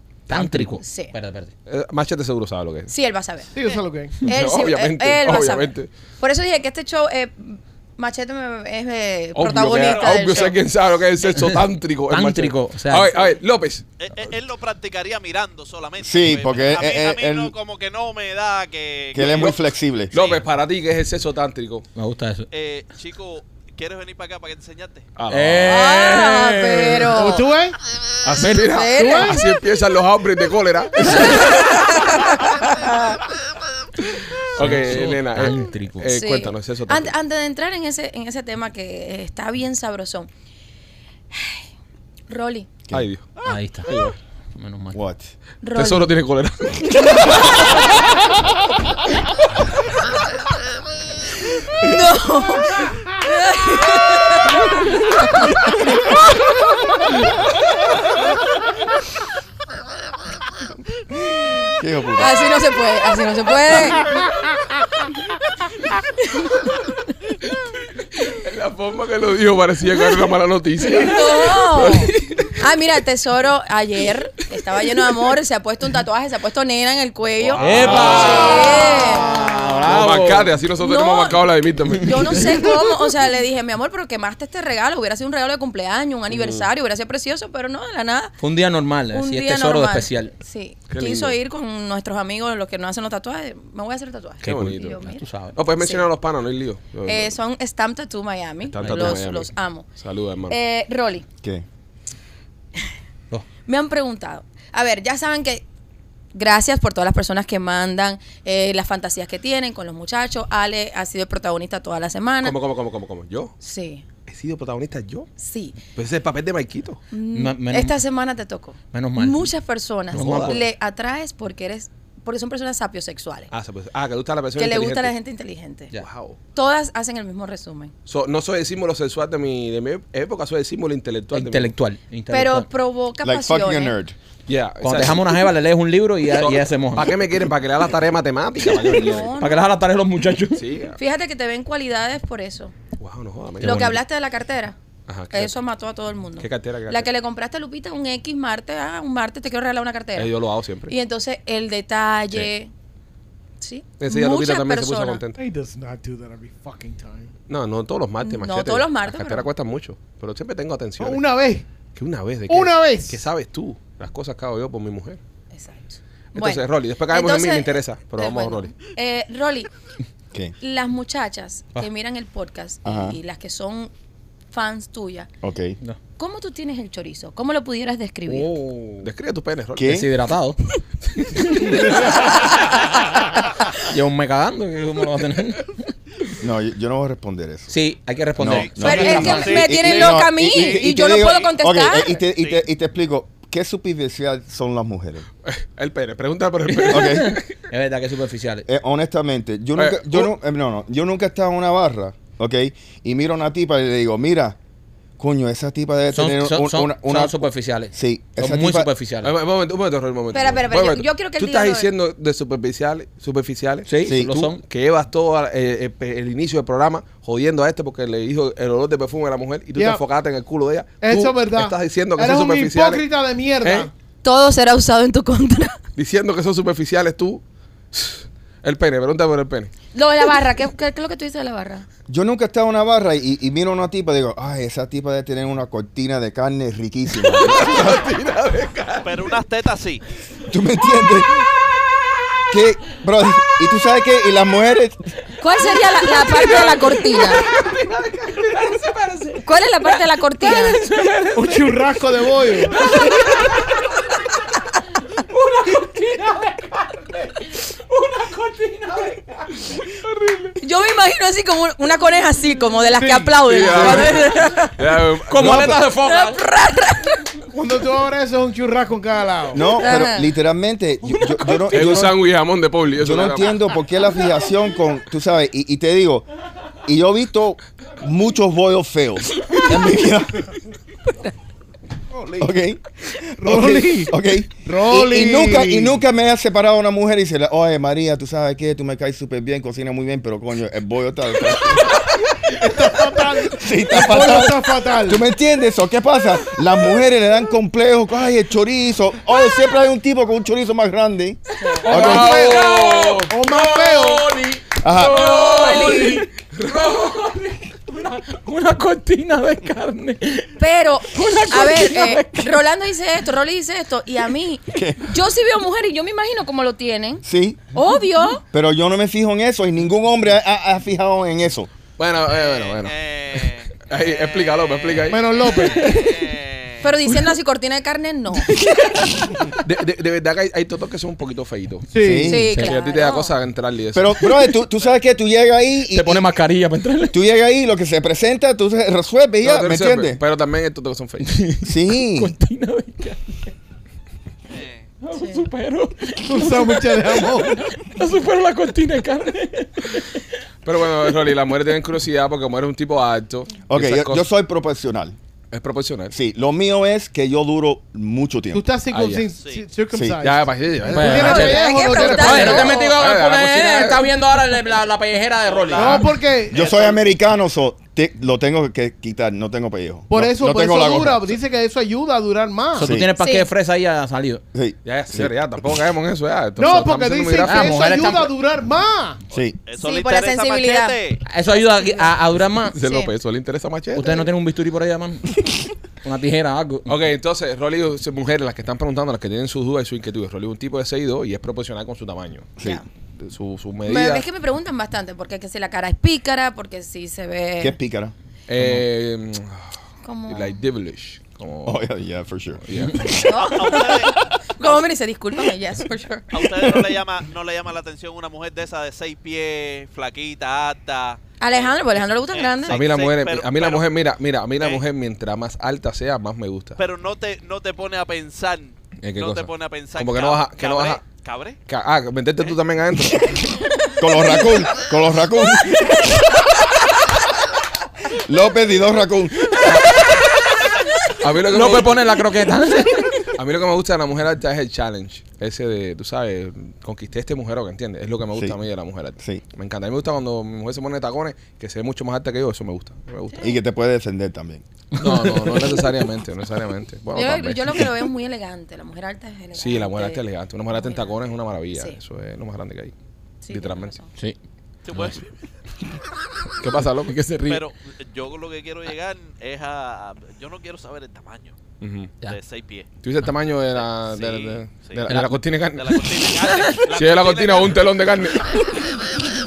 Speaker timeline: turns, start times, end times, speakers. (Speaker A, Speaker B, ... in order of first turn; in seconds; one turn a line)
Speaker A: 0.3-1.5
Speaker B: 0.3-0.8
Speaker C: 0.8-1.1
Speaker B: 1.7-2.9
Speaker C: 2.9-10.6
Speaker D: 3.5-4.3
Speaker B: 4.2-5.9
Speaker B: 9.3-13.8
Speaker E: 9.7-10.5
Speaker A: 11.4-13.1
Speaker E: 14.0-19.6
Speaker F: 16.0-17.5
Speaker F: 19.1-20.1
Speaker B: 19.2-19.6
Speaker B: 20.1-21.8
Speaker E: 20.1-20.4
Speaker A: 21.9-22.5
Speaker E: 22.5-25.1
Speaker B: 25.1-25.9
Speaker A: 25.3-27.1
Speaker C: 25.6-27.5
Speaker D: 27.1-27.8
Speaker B: 28.2-31.5
Speaker C: 28.5-29.5
Speaker C: 31.0-33.2
Speaker A: 31.1-31.4
Speaker B: 34.5-37.1
Speaker A: 34.6-36.1
Speaker C: 36.1-40.3
Speaker C: 41.3-41.6
Speaker C: 42.3-42.8
Speaker B: 42.9-43.3
Speaker A: 43.4-43.9
Speaker B: 43.9-44.2
Speaker A: 44.6-45.0
Speaker F: 44.9-45.3
Speaker C: 45.6-46.2
Speaker B: 45.7-47.5
Speaker C: 46.9-47.8
Speaker C: 51.6-56.5
Speaker F: 61.8-62.3
Speaker C: 62.2-64.2
Speaker C: 66.2-66.6
Speaker B: 68.2-72.6
Speaker C: 70.8-79.6
Speaker B: 77.4-78.8
Speaker A: 77.6-80.5
Speaker B: 79.9-82.7
Speaker C: 80.8-88.3
Speaker A: 81.9-82.4
Speaker B: 86.3-86.7
Speaker A: 88.4-90.3
Speaker C: 89.1-95.2
Speaker B: 90.9-91.3
Speaker A: 94.4-95.6
Speaker B: 94.4-95.0
Speaker B: 95.5-97.4
Speaker C: 95.8-96.1
Speaker C: 97.0-99.9
Speaker B: 98.6-100.6
Speaker A: 98.8-99.2
Speaker C: 100.5-101.2
Speaker C: 103.7-105.6
Speaker C: 106.3-112.6
Speaker B: 112.4-113.5
Speaker C: 113.6-114.0
Speaker B: 114.3-115.3
Speaker C: 115.4-115.8
Speaker B: 115.9-117.0
Speaker C: 117.1-123.5
Speaker A: 117.3-118.0
Speaker A: 118.9-119.5
Speaker A: 120.1-120.6
Speaker B: 120.1-120.7
Speaker B: 123.5-125.1
Speaker C: 124.5-125.9
Speaker B: 125.9-126.4
Speaker C: 126.5-127.9
Speaker B: 128.1-131.7
Speaker A: 131.3-132.7
Speaker C: 132.3-133.9
Speaker F: 133.2-134.2
Speaker B: 134.5-135.3
Speaker A: 134.8-137.2
Speaker B: 136.3-139.4
Speaker C: 138.8-139.6
Speaker A: 138.8-140.6
Speaker B: 140.5-141.0
Speaker C: 141.0-142.7
Speaker B: 143.0-144.0
Speaker A: 143.6-144.0
Speaker C: 143.6-144.8
Speaker B: 145.1-145.6
Speaker C: 145.3-150.3
Speaker B: 146.4-147.1
Speaker B: 150.2-150.9
Speaker C: 150.9-152.7
Speaker C: 153.6-155.2
Speaker B: 154.0-155.4
Speaker D: 155.4-157.3
Speaker B: 157.5-161.2
Speaker C: 158.2-159.5
Speaker D: 161.0-161.7
Speaker B: 161.9-165.2
Speaker D: 162.5-163.2
Speaker C: 165.5-169.7
Speaker B: 166.3-168.7
Speaker C: 170.6-173.9
Speaker F: 172.8-173.2
Speaker C: 174.5-175.3
Speaker F: 175.4-175.8
Speaker C: 176.2-178.5
Speaker A: 178.3-179.1
Speaker B: 179.0-179.9
Speaker F: 179.7-180.1
Speaker A: 179.8-180.6
Speaker B: 181.2-181.5
Speaker A: 181.3-182.4
Speaker A: 183.8-185.9
Speaker F: 186.4-187.7
Speaker A: 187.7-189.6
Speaker F: 188.4-195.2
Speaker E: 188.4-191.5
Speaker C: 188.8-192.2
Speaker E: 192.3-192.6
Speaker B: 195.4-197.4
Speaker A: 196.7-198.7
Speaker F: 196.9-197.4
Speaker F: 198.7-204.6
Speaker B: 199.8-200.3
Speaker F: 205.2-208.9
Speaker A: 206.1-209.3
Speaker B: 209.2-223.1
Speaker C: 210.3-211.9
Speaker F: 213.9-214.3
Speaker A: 213.9-214.6
Speaker D: 219.7-220.0
Speaker D: 221.0-223.9
Speaker B: 223.6-223.9
Speaker C: 224.2-225.8
Speaker B: 225.9-229.7
Speaker C: 229.9-231.9
Speaker F: 232.1-237.9
Speaker B: 237.2-239.3
Speaker E: 239.0-240.0
Speaker F: 240.5-241.3
Speaker F: 242.5-245.0
Speaker C: 245.4-247.4
Speaker A: 245.8-251.9
Speaker C: 249.4-250.8
Speaker D: 251.3-252.8
Speaker A: 252.6-253.9
Speaker A: 255.1-259.9
Speaker B: 260.1-260.5
Speaker C: 260.6-264.7
Speaker D: 263.0-263.3
Speaker B: 263.4-265.8
Speaker A: 263.7-264.7
Speaker A: 265.3-266.4
Speaker F: 265.4-265.8
Speaker C: 266.0-267.2
Speaker D: 267.5-269.7
Speaker F: 269.5-272.2
Speaker C: 269.8-270.3
Speaker B: 271.5-273.6
Speaker F: 273.0-276.2
Speaker F: 276.8-280.5
Speaker F: 282.4-292.1
Speaker D: 283.4-286.0
Speaker D: 292.5-295.2
Speaker F: 293.4-302.3
Speaker C: 301.6-301.9
Speaker A: 301.8-310.6
Speaker B: 301.9-303.3
Speaker D: 301.9-304.3
Speaker F: 304.8-305.3
Speaker B: 304.9-306.9
Speaker C: 305.1-306.2
Speaker C: 310.6-318.4
Speaker A: 311.1-312.6
Speaker F: 314.7-315.1
Speaker F: 317.2-317.6
Speaker F: 318.5-321.7
Speaker B: 322.0-325.3
Speaker E: 322.2-326.9
Speaker D: 325.1-325.9
Speaker A: 325.8-326.1
Speaker C: 326.8-328.6
Speaker A: 328.5-329.6
Speaker B: 329.6-331.9
Speaker D: 331.9-332.4
Speaker F: 332.0-332.5
Speaker A: 332.2-332.8
Speaker C: 332.2-333.4
Speaker B: 332.5-334.4
Speaker F: 333.9-336.4
Speaker A: 335.9-337.2
Speaker F: 337.1-340.2
Speaker B: 339.4-341.4
Speaker A: 341.2-343.5
Speaker F: 341.6-342.3
Speaker E: 344.5-344.9
Speaker A: 345.0-350.2
Speaker C: 345.1-345.4
Speaker D: 346.2-347.7
Speaker B: 350.6-354.2
Speaker F: 353.7-355.1
Speaker B: 355.5-356.1
Speaker F: 356.1-358.7
Speaker D: 358.5-362.7
Speaker B: 358.9-359.3
Speaker E: 359.4-359.6
Speaker F: 359.9-360.2
Speaker B: 360.2-364.1
Speaker A: 360.9-361.6
Speaker C: 361.2-363.0
Speaker A: 362.1-366.1
Speaker E: 365.5-367.0
Speaker D: 365.7-366.8
Speaker F: 366.5-371.4
Speaker D: 370.1-373.0
Speaker F: 372.8-373.1
Speaker A: 372.8-374.4
Speaker C: 373.2-373.5
Speaker F: 374.5-375.3
Speaker B: 374.8-377.9
Speaker D: 376.6-379.2
Speaker A: 377.4-378.3
Speaker F: 379.3-379.6
Speaker E: 379.6-381.2
Speaker C: 379.8-381.0
Speaker A: 381.3-382.8
Speaker B: 382.7-384.2
Speaker C: 382.8-383.1
Speaker A: 383.9-385.4
Speaker A: 386.0-387.0
Speaker B: 386.9-392.6
Speaker B: 393.2-394.2
Speaker C: 393.8-397.8
Speaker F: 397.6-398.1
Speaker B: 398.5-399.7
Speaker C: 400.0-400.6
Speaker B: 400.3-401.8
Speaker F: 401.6-403.3
Speaker B: 402.6-403.2
Speaker C: 403.1-406.8
Speaker E: 403.4-404.9
Speaker E: 406.3-413.9
Speaker C: 411.4-412.9
Speaker B: 412.7-416.8
Speaker E: 416.8-421.6
Speaker B: 419.0-421.1
Speaker B: 421.7-423.5
Speaker F: 424.0-426.1
Speaker F: 428.1-429.8
Speaker B: 431.2-432.0
Speaker A: 431.5-433.3
Speaker B: 433.4-443.5
Speaker F: 443.4-444.6
Speaker B: 444.9-447.9
Speaker A: 445.0-445.7
Speaker C: 447.1-451.2
Speaker B: 449.5-452.9
Speaker C: 453.4-454.1
Speaker B: 453.5-454.0
Speaker E: 454.9-455.3
Speaker B: 456.6-457.2
Speaker A: 457.1-457.6
Speaker E: 457.5-461.6
Speaker B: 461.8-462.1
Speaker E: 462.2-462.9
Speaker B: 463.0-468.6
Speaker E: 463.8-465.0
Speaker A: 465.1-465.3
Speaker E: 465.8-468.0
Speaker A: 465.9-466.8
Speaker A: 468.5-469.0